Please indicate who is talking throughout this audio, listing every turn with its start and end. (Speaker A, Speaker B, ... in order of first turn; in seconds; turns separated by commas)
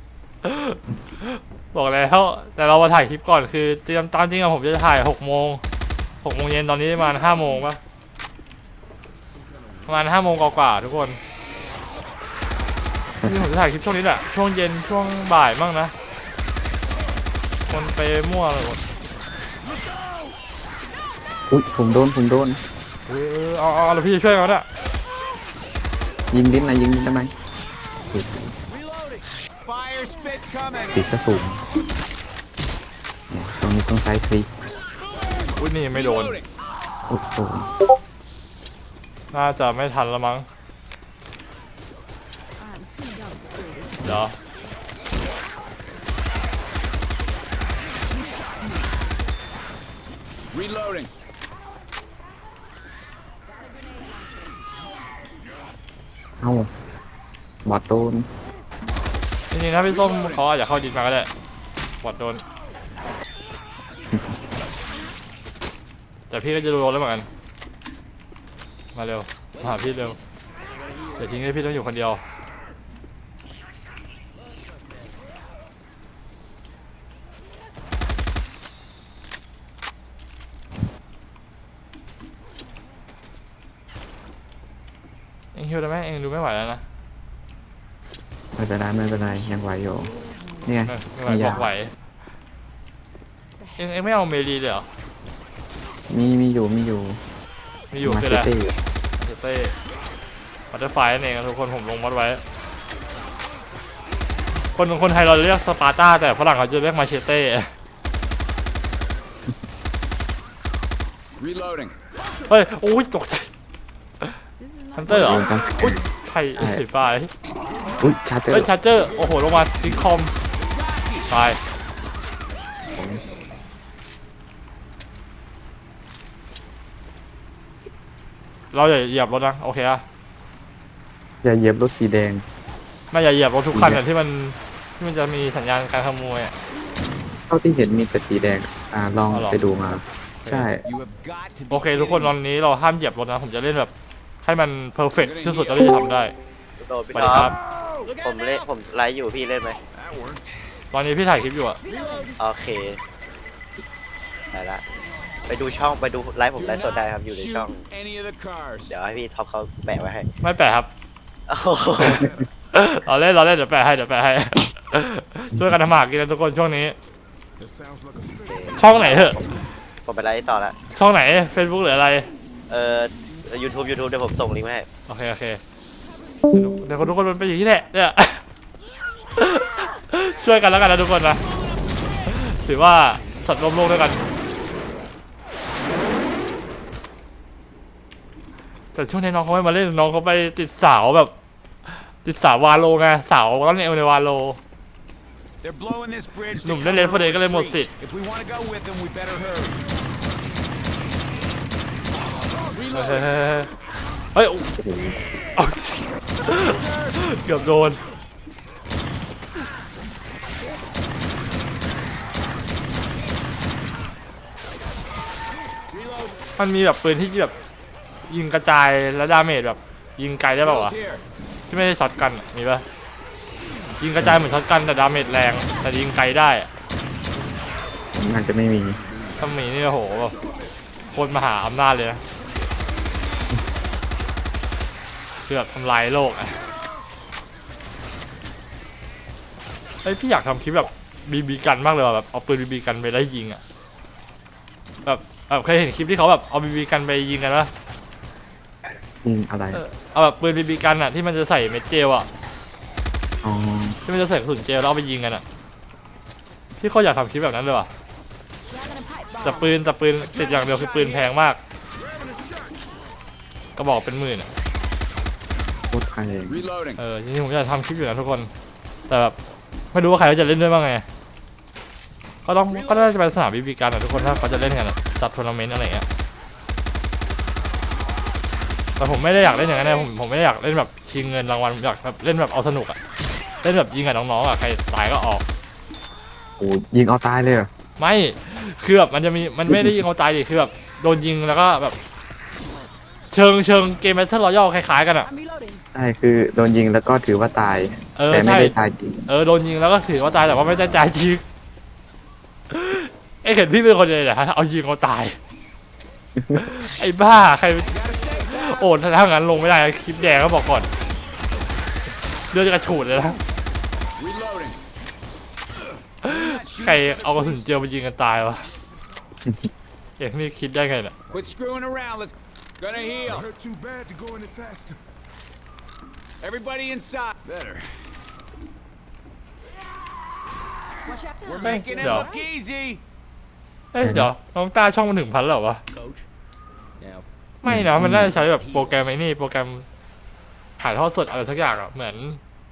Speaker A: 0.4-5.6, Speaker A: 6.2-7.8, Speaker A: 9.8-11.2, Speaker A: 13.2-15.9, Speaker A: 17.7-18.8, Speaker B: 21.5-22.6, Speaker A: 23.1-24.6, Speaker B: 26.3-27.3, Speaker B: 28.1-28.6, Speaker C: 28.7-31.0, Speaker B: 30.9-31.6, Speaker B: 33.3-34.5, Speaker A: 35.6-36.4, Speaker C: 35.9-36.5, Speaker B: 37.1-37.7, Speaker A: 39.3-40.5, Speaker A: 44.0-44.4, Speaker C: 50.5-51.1, Speaker B: 56.4-56.7, Speaker B: 57.6-58.3, Speaker A: 59.5-61.3, Speaker C: 59.9-60.4, Speaker A: 62.0-62.4, Speaker A: 66.3-67.3, Speaker A: 68.9-70.2, Speaker A: 71.2-72.2, Speaker A: 85.5-86.8, Speaker B: 88.5-91.7, Speaker A: 90.9-91.9, Speaker A: 93.8-94.9, Speaker B: 96.1-97.2, Speaker A: 97.9-98.5, Speaker B: 98.0-98.8, Speaker A: 99.2-99.7, Speaker A: 100.7-102.4, Speaker A: 104.7-107.7, Speaker C: 111.4-111.9, Speaker A: 112.5-113.5, Speaker A: 114.9-117.3, Speaker B: 115.1-116.0, Speaker B: 116.6-116.8, Speaker B: 118.0-118.7, Speaker A: 118.5-120.3, Speaker C: 120.7-121.3, Speaker A: 121.3-121.6, Speaker B: 122.9-123.3, Speaker A: 128.7-130.0, Speaker B: 131.4-132.4, Speaker A: 133.1-136.5, Speaker B: 133.7-134.0, Speaker B: 137.5-140.8, Speaker A: 139.3-139.6, Speaker A: 140.4-140.7, Speaker C: 140.8-142.3, Speaker A: 141.7-143.9, Speaker A: 144.4-146.3, Speaker C: 145.2-145.9, Speaker D: 146.8-147.5, Speaker A: 147.1-147.6, Speaker C: 148.0-148.7, Speaker D: 148.2-149.8, Speaker C: 149.9-150.6, Speaker A: 150.9-151.8, Speaker C: 151.9-152.3, Speaker D: 152.4-153.0, Speaker D: 154.5-154.8, Speaker D: 155.5-157.8, Speaker C: 156.5-158.9, Speaker D: 158.9-160.3, Speaker A: 160.4-160.9, Speaker D: 161.5-162.3, Speaker A: 162.0-166.9, Speaker E: 167.6-168.5, Speaker D: 168.5-169.4, Speaker A: 168.7-169.4, Speaker D: 170.0-170.8, Speaker A: 170.9-172.3, Speaker D: 172.7-174.9, Speaker A: 175.1-175.6, Speaker A: 176.5-178.4, Speaker A: 179.3-181.4, Speaker A: 182.2-184.2, Speaker A: 188.9-191.3, Speaker A: 191.8-194.6, Speaker C: 195.6-199.8, Speaker A: 196.6-197.9, Speaker C: 202.7-203.3, Speaker A: 202.9-203.7, Speaker A: 204.3-204.7, Speaker B: 204.8-205.2, Speaker A: 205.6-208.0, Speaker C: 206.5-207.2, Speaker C: 215.9-216.4, Speaker A: 216.6-217.5, Speaker A: 218.3-220.9, Speaker C: 220.6-221.2, Speaker A: 221.7-222.8, Speaker A: 224.0-226.7, Speaker B: 224.2-224.5, Speaker B: 228.1-229.0, Speaker A: 229.4-230.3, Speaker A: 231.1-232.2, Speaker A: 235.3-236.6, Speaker A: 240.0-243.6, Speaker A: 245.0-247.7, Speaker B: 249.1-249.8, Speaker A: 249.7-252.3, Speaker B: 253.4-254.0, Speaker A: 254.1-255.4, Speaker A: 256.8-257.9, Speaker A: 259.4-261.6, Speaker A: 263.8-264.5, Speaker B: 265.9-266.7, Speaker C: 266.5-267.0, Speaker A: 267.0-268.5, Speaker A: 269.1-269.4, Speaker A: 269.9-271.1, Speaker A: 272.4-276.1, Speaker A: 279.0-283.0, Speaker A: 283.6-285.4, Speaker B: 286.6-287.7, Speaker A: 288.0-292.0, Speaker B: 289.6-290.0, Speaker A: 293.3-295.3, Speaker B: 295.9-299.3, Speaker A: 298.1-298.8, Speaker A: 299.3-301.4, Speaker A: 302.7-305.4, Speaker B: 306.4-306.6, Speaker A: 306.5-307.9, Speaker C: 307.9-308.8, Speaker A: 308.4-310.9, Speaker A: 312.5-313.4, Speaker C: 314.2-314.8, Speaker C: 316.2-317.7, Speaker A: 316.2-318.7, Speaker A: 320.2-321.1, Speaker C: 321.3-323.5, Speaker E: 323.4-325.0, Speaker C: 326.4-327.9, Speaker C: 331.4-333.0, Speaker A: 331.6-332.3, Speaker A: 333.9-335.8, Speaker B: 334.0-334.3, Speaker A: 337.6-339.9, Speaker B: 337.6-338.4, Speaker A: 340.8-342.4